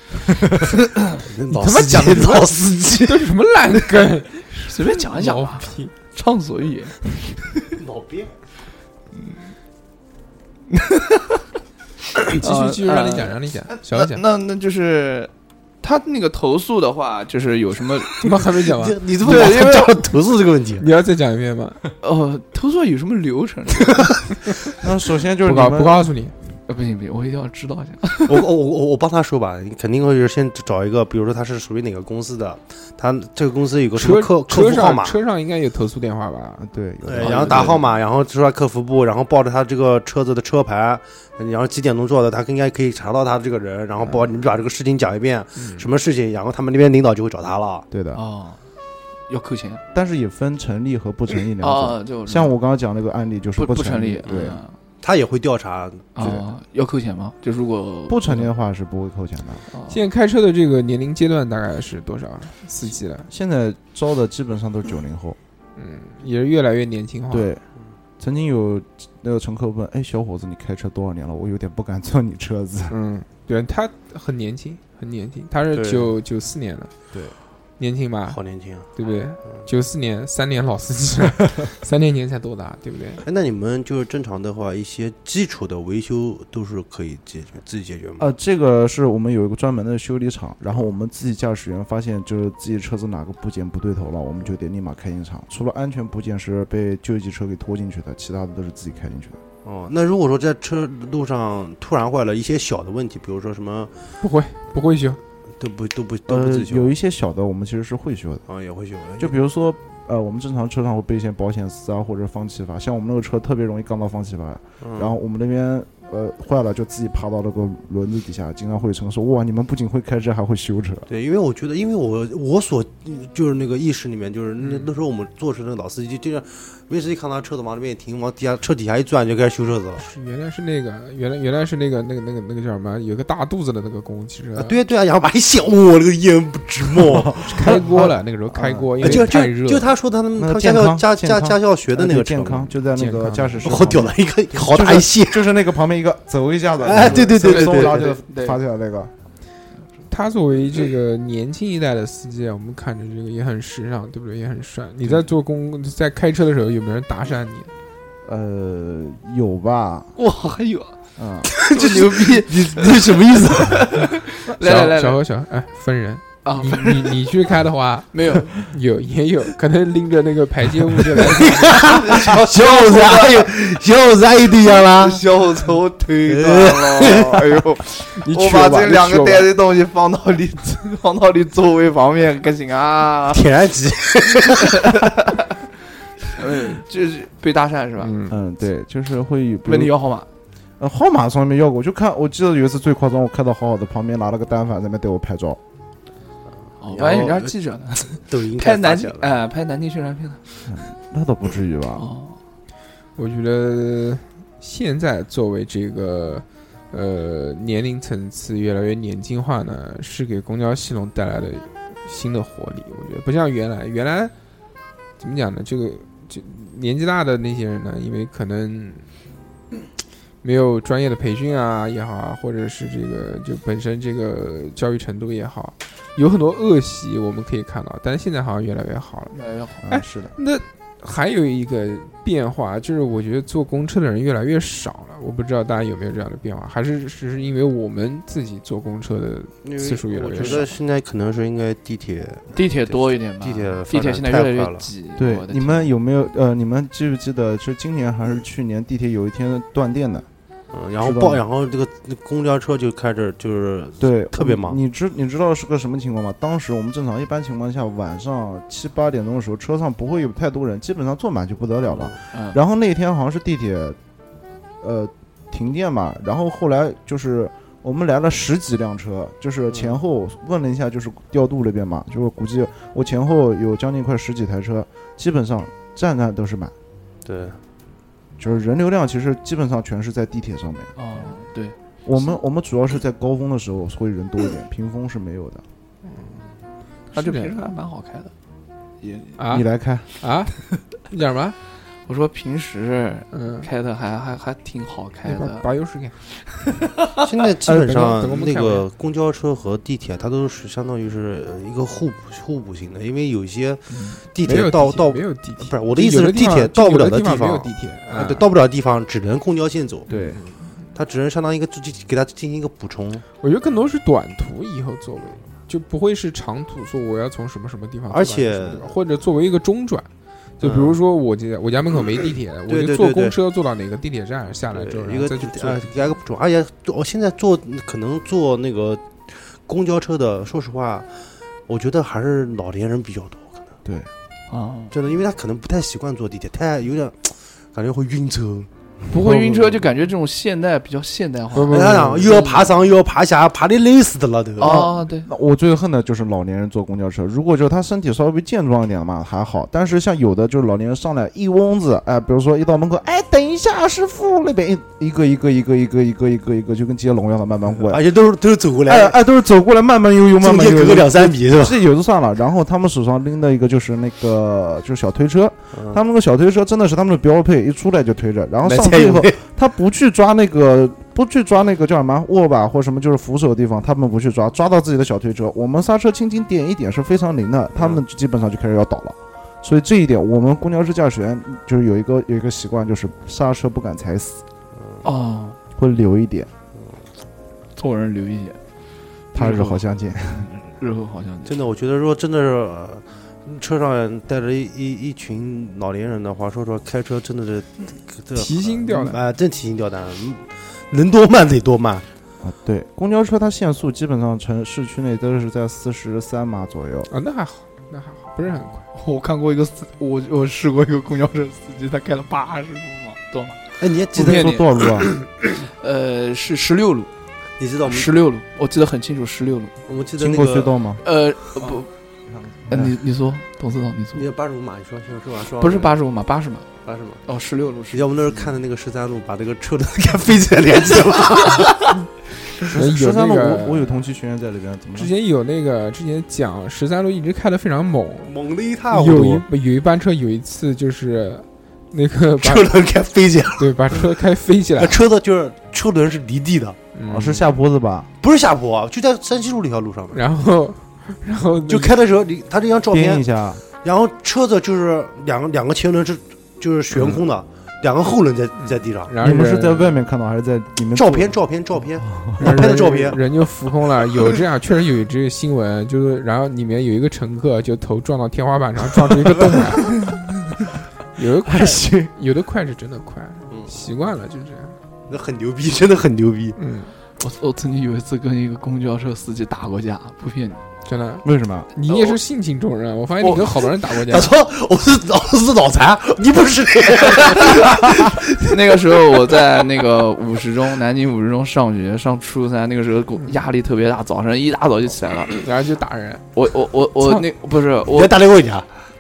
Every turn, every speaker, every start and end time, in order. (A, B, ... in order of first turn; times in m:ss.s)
0:00.5-0:01.2 A
0:01.2-0:03.2 B
0:01.5-0:05.9 C
0:04.6-0:07.0 A
0:07.8-0:08.3 B
0:10.7-0:11.4 A
0:12.4-0:15.3 A
0:12.4-0:14.2 C
0:15.8-0:18.2 A
0:18.2-0:19.0 C
0:18.7-0:20.9 B
0:19.2-0:19.9 A
0:20.8-0:21.8 C
0:22.0-0:24.1 A
0:24.8-0:26.1 D
0:25.4-0:26.4 C
0:26.7-0:28.4 A
0:28.3-0:35.2 B
0:34.0-0:36.6 C
0:36.6-0:37.8 D
0:37.0-0:47.9 B
0:37.2-0:37.8 C
0:45.6-0:45.9 C
0:47.9-0:48.2 D
0:48.1-0:48.6 A
0:49.3-0:49.8 A
0:49.9-0:54.6 D
0:51.6-0:52.6 A
0:53.6-0:54.8 A
0:55.0-0:56.3 B
0:56.2-0:58.5 A
0:58.1-0:59.6 D
0:59.7-1:00.0 A
0:59.9-1:03.3 C
1:03.3-1:05.4 D
1:05.8-1:07.5 C
1:07.3-1:07.6 D
1:08.2-1:13.0 D
1:12.9-1:16.9 C
1:15.7-1:16.1 B
1:17.8-1:18.4 C
1:18.3-1:18.9 B
1:18.9-1:23.2 C
1:23.2-1:28.3 B
1:28.2-1:39.4 D
1:39.6-1:43.9 B
1:44.2-1:45.2 C
1:45.6-1:46.9 B
1:46.3-1:48.4 D
1:48.5-1:49.4 B
1:49.2-2:01.1 D
1:54.8-1:55.2 B
2:01.1-2:10.0 B
2:04.6-2:04.9 C
2:10.0-2:14.8 C
2:14.6-2:17.5 B
2:17.1-2:19.3 D
2:17.4-2:19.9 C
2:19.0-2:22.8 B
2:20.4-2:29.1 D
2:23.0-2:23.8 C
2:23.6-2:25.5 B
2:26.8-2:28.0 B
2:27.4-2:28.6 A
2:30.1-2:37.7 C
2:38.2-2:40.1 D
2:40.2-2:45.2 A
2:41.2-2:41.5 D
2:41.6-2:42.1 B
2:42.5-2:43.8 D
2:44.6-2:51.9 C
2:46.4-2:47.1 A
2:48.1-2:48.5 A
2:51.4-2:55.2 B
2:51.8-2:53.5 A
2:54.9-3:03.5 A
2:56.3-2:57.4 B
2:58.2-2:59.5 C
3:03.3-3:05.0 B
3:04.8-3:05.5 A
3:06.4-3:08.1 A
3:08.0-3:08.4 C
3:08.3-3:10.0 D
3:09.7-3:10.3 A
3:10.8-3:15.6 D
3:16.8-3:20.6 A
3:16.9-3:17.5 B
3:18.2-3:19.3 B
3:20.7-3:22.1 D
3:22.0-3:22.4 A
3:23.2-3:34.3 C
3:35.2-3:39.0 C
3:40.4-3:49.3 C
3:49.3-3:49.8 A
3:49.8-3:50.3 D
3:49.9-4:00.7 C
3:59.6-4:04.9 B
4:02.6-4:05.9 A
4:05.2-4:10.3 D
4:10.7-4:14.8 B
4:11.0-4:11.4 D
4:14.0-4:24.0 D
4:21.9-4:22.2 B
4:22.3-4:22.6 A
4:24.8-4:36.7 D
4:29.7-4:30.0 B
4:37.2-4:37.6 B
4:38.4-4:40.9 D
4:41.0-4:42.3 A
4:42.0-4:45.6 D
4:47.1-4:47.5 C
4:47.1-4:48.3 A
4:49.0-4:49.4 A
4:49.4-4:49.7 C
4:49.5-4:50.1 D
4:50.2-4:51.6 C
4:52.1-4:55.6 A
4:53.3-4:53.7 C
4:55.2-4:56.2 C
4:57.2-5:10.1 B
4:57.7-4:58.0 D
4:57.8-4:58.9 C
5:04.4-5:08.5 C
5:10.1-5:10.4 D
5:10.9-5:13.2 B
5:13.4-5:20.1 C
5:18.1-5:19.0 B
5:20.6-5:25.9 C
5:20.6-5:21.0 B
5:22.2-5:23.4 B
5:24.7-5:31.1 B
5:31.7-5:33.8 B
5:33.8-5:34.1 D
5:34.5-5:34.9 A
5:34.9-5:38.7 B
5:39.1-5:42.6 A
5:41.5-5:42.5 C
5:41.7-5:44.9 B
5:44.6-5:45.3 A
5:44.6-5:58.0 D
5:57.8-5:59.2 B
5:58.9-6:24.4 D
6:00.4-6:01.8 B
6:05.7-6:06.0 B
6:08.6-6:09.4 B
6:17.8-6:18.0 B
6:25.0-6:25.6 A
6:25.8-6:26.5 D
6:27.8-6:28.6 A
6:29.3-6:30.5 D
6:29.4-6:31.6 A
6:31.4-6:42.0 B
6:38.4-6:39.2 C
6:42.4-6:47.1 D
6:47.1-6:48.8 C
6:48.9-6:53.6 A
6:53.8-6:55.1 B
6:54.1-6:55.1 D
6:54.2-6:54.6 A
6:55.8-6:57.1 A
6:57.6-6:58.2 B
6:57.8-6:59.7 A
6:59.9-7:00.8 B
7:00.2-7:01.0 D
7:01.0-7:01.9 A
7:02.7-7:03.0 D
7:02.7-7:04.3 A
7:04.2-7:06.0 B
7:05.6-7:06.7 A
7:06.8-7:07.2 B
7:07.3-7:08.0 A
7:07.9-7:12.0 B
7:12.7-7:15.1 D
7:12.7-7:14.0 C
7:15.0-7:18.4 C
7:18.2-7:19.4 B
7:18.9-7:22.8 C
7:22.4-7:24.1 B
7:23.6-7:25.0 C
7:24.8-7:26.8 B
7:27.0-7:27.5 C
7:27.1-7:28.1 D
7:28.2-7:30.2 B
7:30.1-7:32.0 C
7:31.7-7:33.3 B
7:32.9-7:33.6 D
7:33.8-7:39.1 B
7:38.6-7:40.0 C
7:39.2-7:41.4 D
7:40.9-7:43.2 B
7:42.0-7:43.1 D
7:42.4-7:50.2 C
7:51.2-7:54.8 C
7:51.5-7:52.1 D
7:55.1-7:56.6 B
7:56.6-7:56.9 C
7:57.2-8:00.6 A
8:00.9-8:04.3 C
8:01.2-8:01.7 D
8:01.9-8:02.2 A
8:03.2-8:03.5 A
8:04.0-8:08.6 B
8:07.3-8:07.6 A
8:08.4-8:15.3 A
8:15.4-8:16.2 C
8:16.4-8:18.2 A
8:17.9-8:18.7 B